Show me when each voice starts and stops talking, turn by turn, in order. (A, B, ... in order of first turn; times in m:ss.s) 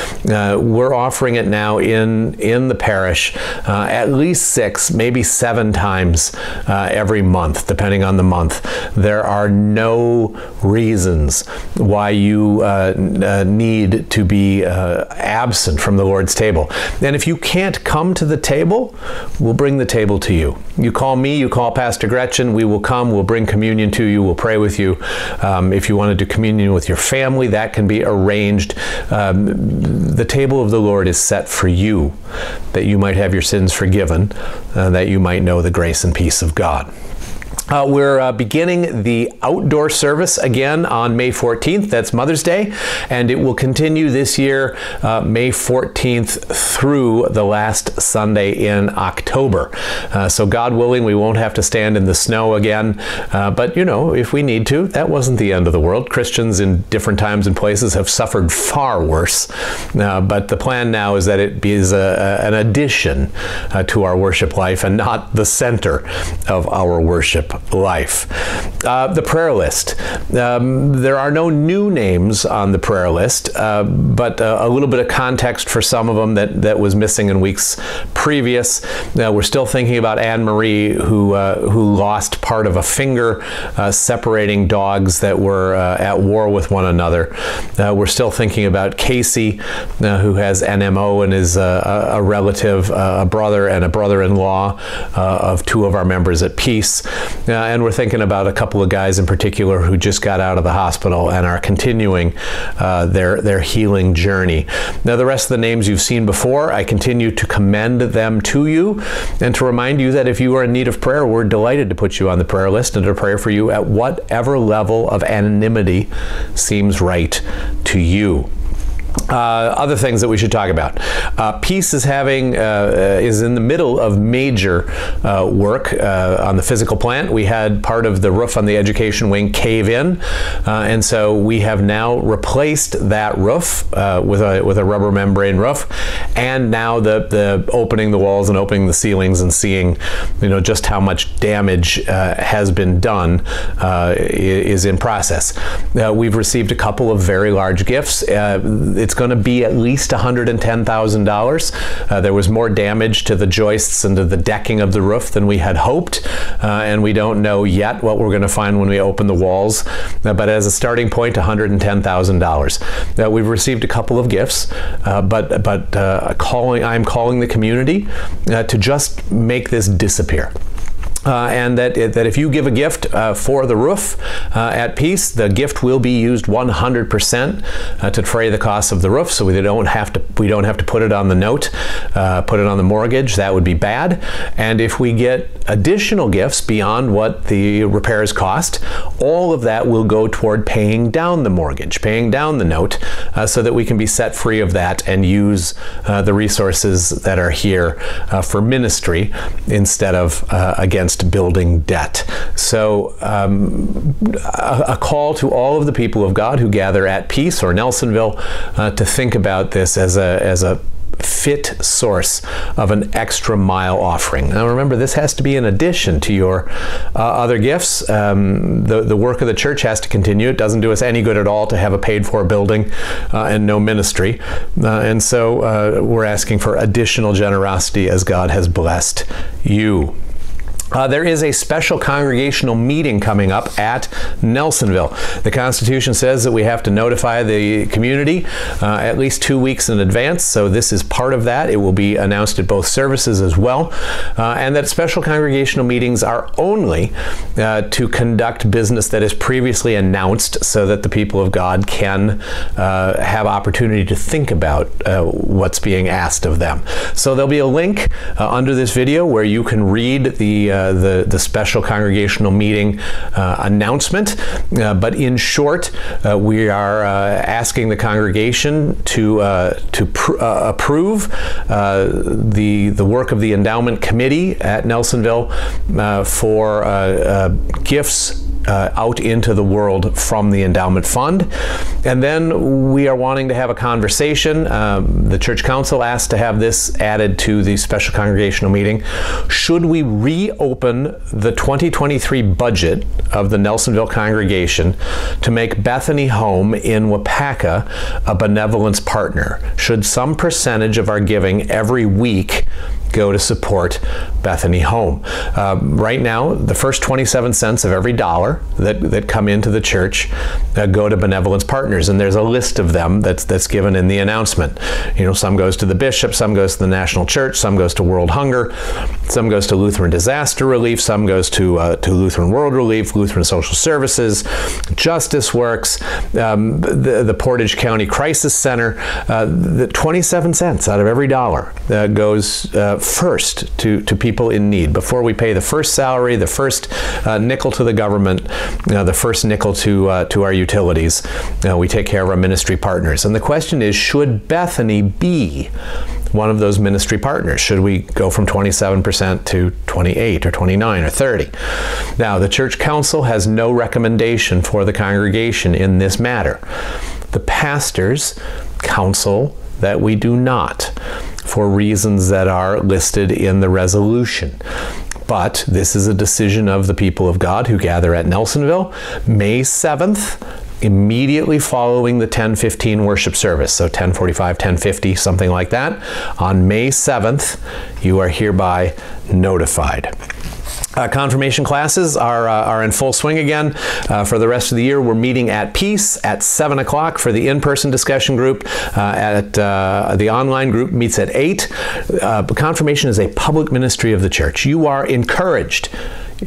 0:00.2-0:32.2 A
0:32.7-0:36.9 A
0:37.7-1:08.3 A
1:08.8-1:58.5 A
1:59.3-2:50.5 A
2:51.2-3:50.1 A
3:50.9-4:41.5 A
4:42.0-5:18.7 A
5:19.3-5:24.4 A
5:24.9-5:45.7 A
5:46.3-5:51.5 A
5:52.2-5:56.6 A
5:57.3-6:00.9 A
6:01.4-6:04.6 A
6:05.3-6:20.1 A
6:21.0-6:35.9 A